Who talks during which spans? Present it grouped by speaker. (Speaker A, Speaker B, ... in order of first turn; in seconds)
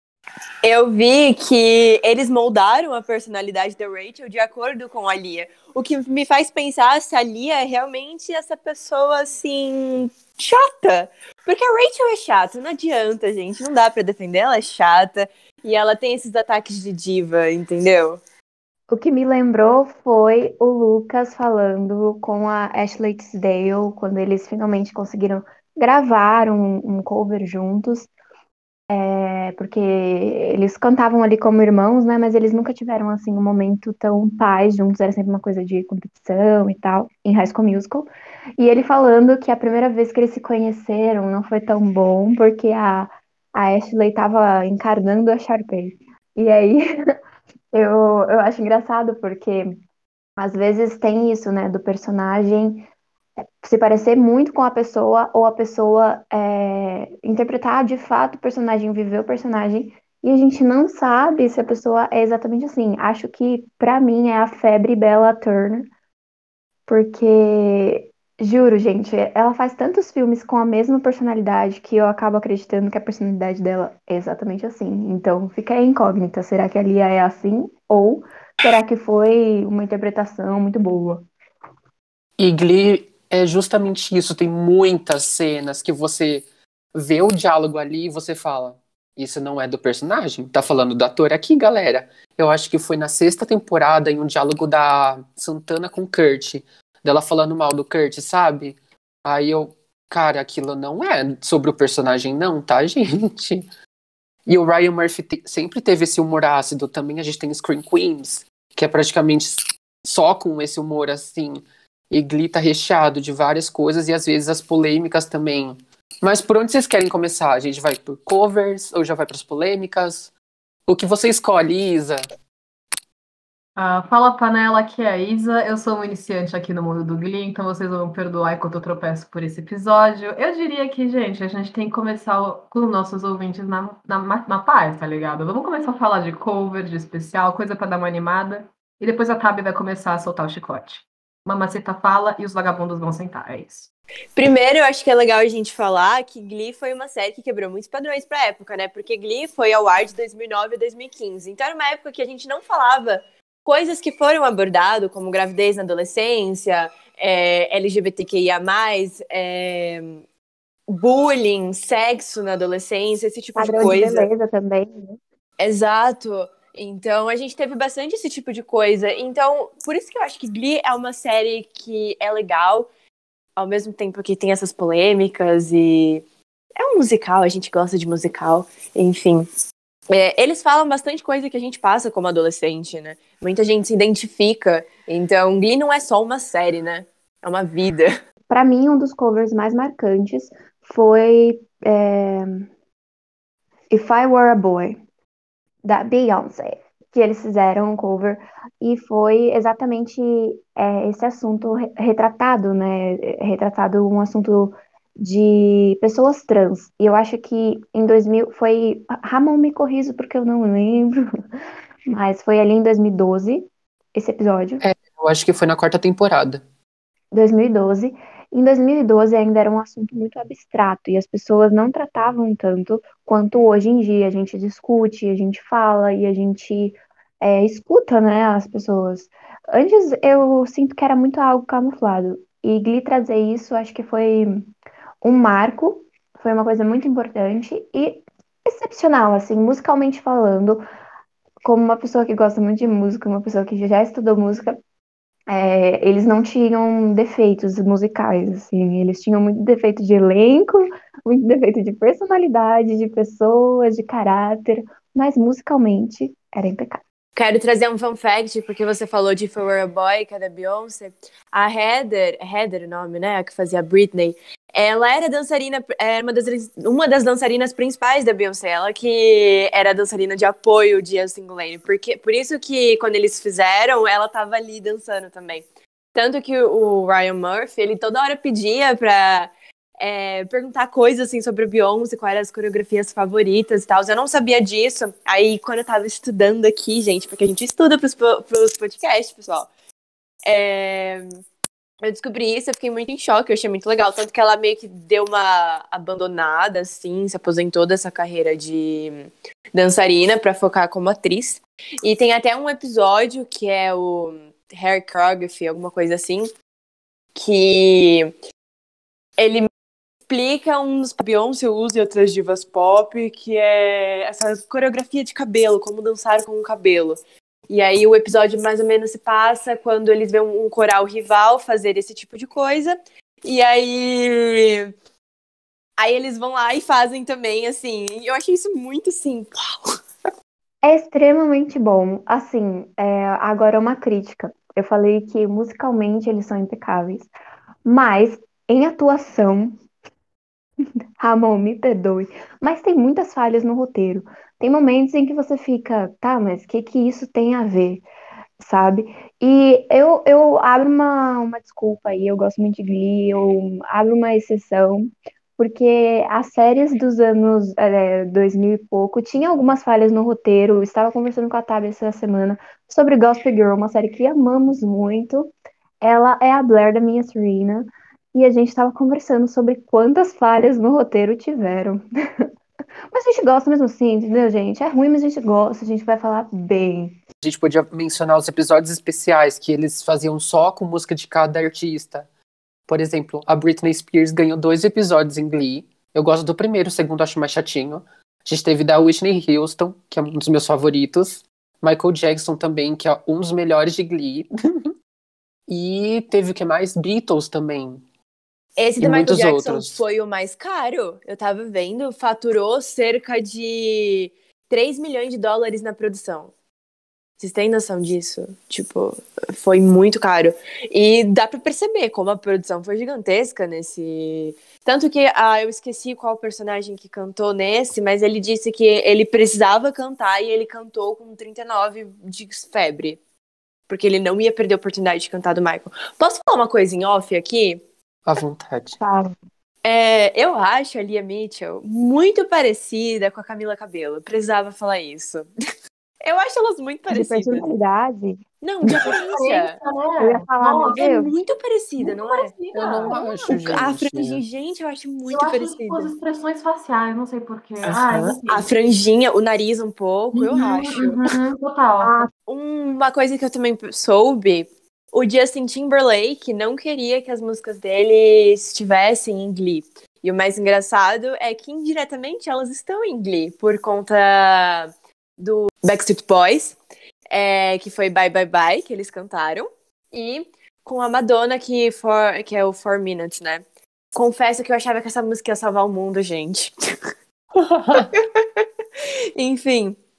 Speaker A: 0.6-18.2, 144.4-160.2, 160.9-164.3, 165.6-172.9, 173.6-176.2, 176.8-179.5, 180.1-188.1, 257.4-289.7, 290.5-291.3, 292.0-306.5, 307.4-308.3, 309.4-309.7, 310.3-324.9, 326.0-329.9, 398.8-406.5, 407.4-423.2, 423.9-427.8, 429.8-435.5, 436.2-437.7, 438.6-439.8, 440.9-442.5, 443.1-446.1, 448.5-451.2, 452.5-466.8, 467.3-476.7, 477.9-478.6, 479.4-480.0
Speaker B: 18.9-28.1, 28.9-46.9, 47.7-49.8, 50.4-52.9, 53.6-65.9, 66.9-81.3, 163.6-165.2, 188.5-192.7, 193.9-195.0, 195.8-211.2, 212.1-214.8, 217.3-234.7, 235.2-240.8, 241.6-244.8, 245.5-257.0, 330.8-337.3, 337.8-339.8, 341.2-348.1, 348.6-372.5, 373.1-377.2, 429.0-429.4, 437.1-438.4, 440.2-441.3, 452.0-452.3
Speaker C: 82.4-103.7, 104.5-120.3, 120.9-122.3, 214.8-216.6, 377.4-382.3, 382.9-394.5, 395.7-398.0, 399.0-400.0, 428.3-429.0, 442.7-444.4, 477.6-478.1
Speaker D: 123.8-143.9, 439.1-441.0, 442.0-443.2, 445.3-448.7, 450.3-452.3